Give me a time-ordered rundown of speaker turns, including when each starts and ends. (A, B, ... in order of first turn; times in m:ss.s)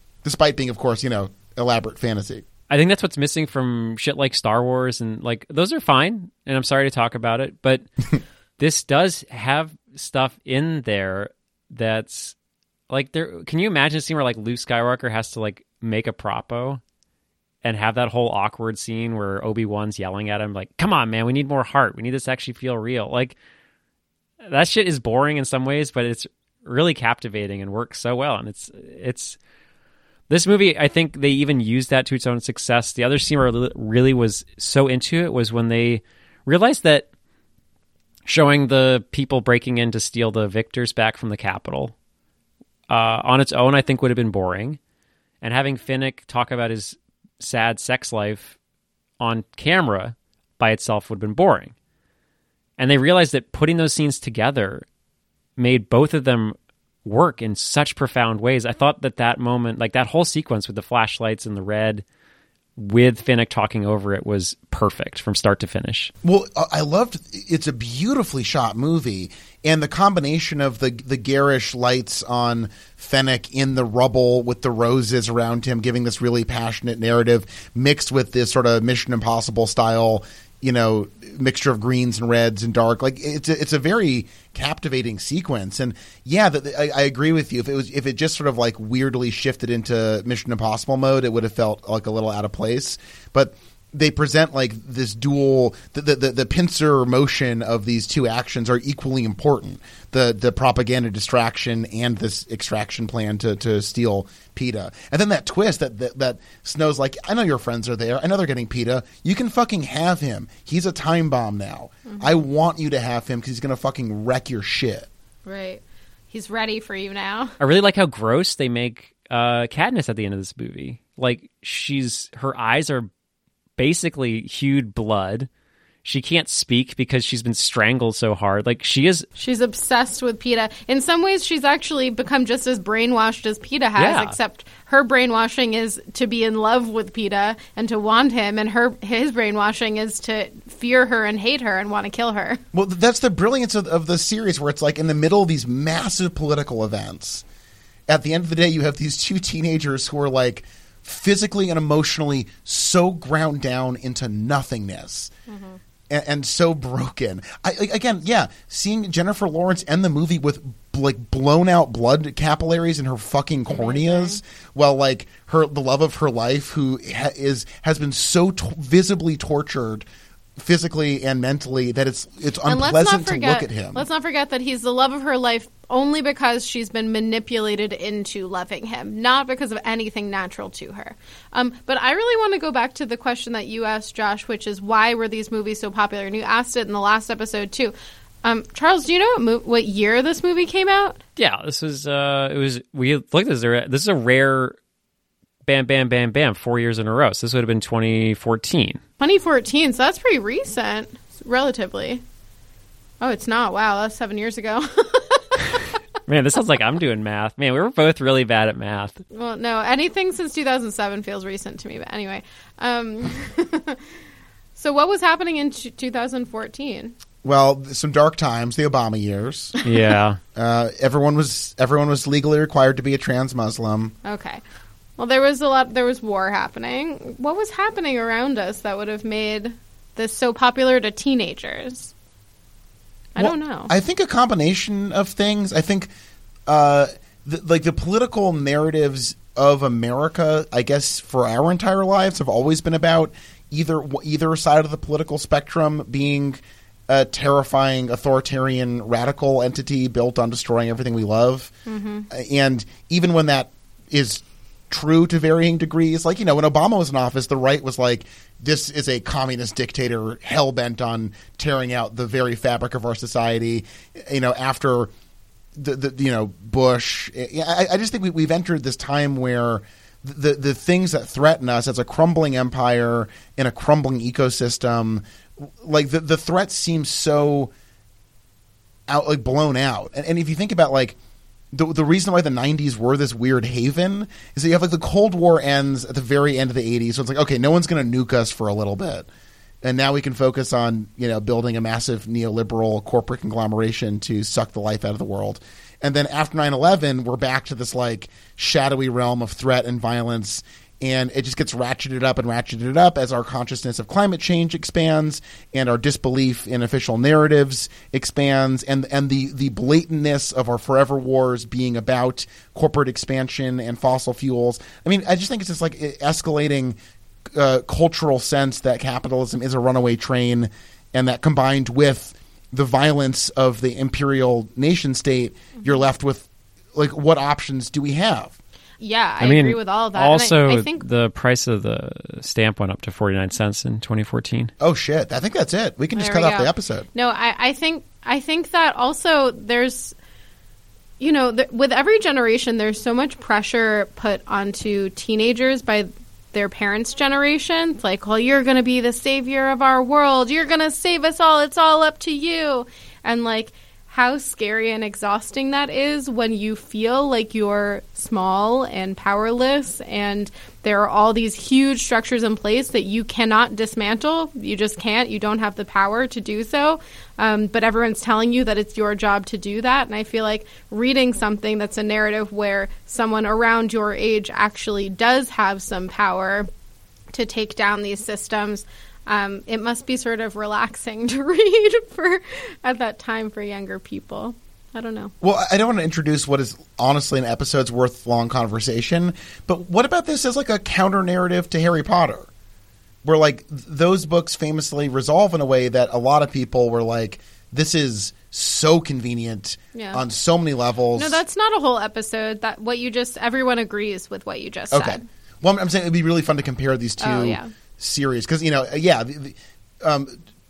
0:00.2-0:02.4 A
0:02.7-0:07.9 B
0:08.6-0:12.4 B
0:12.9-0:16.8 B
0:17.6-0:23.4 B
0:24.5-0:29.4 B
0:30.3-0:37.1 B
0:38.3-0:41.9 B
0:42.9-0:44.8 B
0:45.4-0:48.6 B
0:49.2-0:51.7 B
0:52.8-0:54.9 B
0:55.6-1:02.0 B
1:02.8-1:06.1 B
1:06.2-1:55.1 A
1:52.1-1:52.4 C
1:55.5-1:57.6 C
1:57.6-2:03.1 B
2:03.8-2:05.5 B
2:06.0-2:09.3 B
2:09.4-2:22.6 C
2:14.0-2:14.4 B
2:22.7-2:27.4 A
2:28.1-2:35.3 A
2:35.5-2:35.8 C
2:36.1-2:50.0 A
2:43.7-2:44.4 C
2:50.6-2:54.0 A
2:52.7-3:11.2 C
3:11.4-3:14.8 B
3:15.6-3:19.0 B
3:19.2-3:22.2 C
3:23.2-3:25.8 C
3:26.3-3:29.2 B
3:29.3-3:34.0 C
3:34.8-3:37.2 C
3:37.4-3:39.7 A
3:39.8-3:40.4 B
3:40.6-3:44.1 A
3:44.2-3:44.6 C
3:45.2-3:52.1 C
3:53.4-3:53.9 C
3:53.4-3:56.1 A
3:56.7-4:11.7 A
4:11.9-4:12.3 C
4:12.3-4:25.1 A
4:25.8-4:37.7 A
4:39.1-4:41.2 A
4:41.7-4:49.3 A
4:49.8-5:17.0 A
5:17.5-5:28.6 A
5:29.0-5:31.0 C
5:29.4-5:34.7 B
5:34.8-5:37.1 A
5:36.2-5:40.2 C
5:41.2-6:16.7 C
6:17.3-6:25.3 C
6:25.4-6:32.5 A
6:33.2-6:41.4 A
6:39.9-6:40.2 C
6:41.1-6:45.2 C
6:44.9-6:50.4 A
6:47.2-6:47.7 C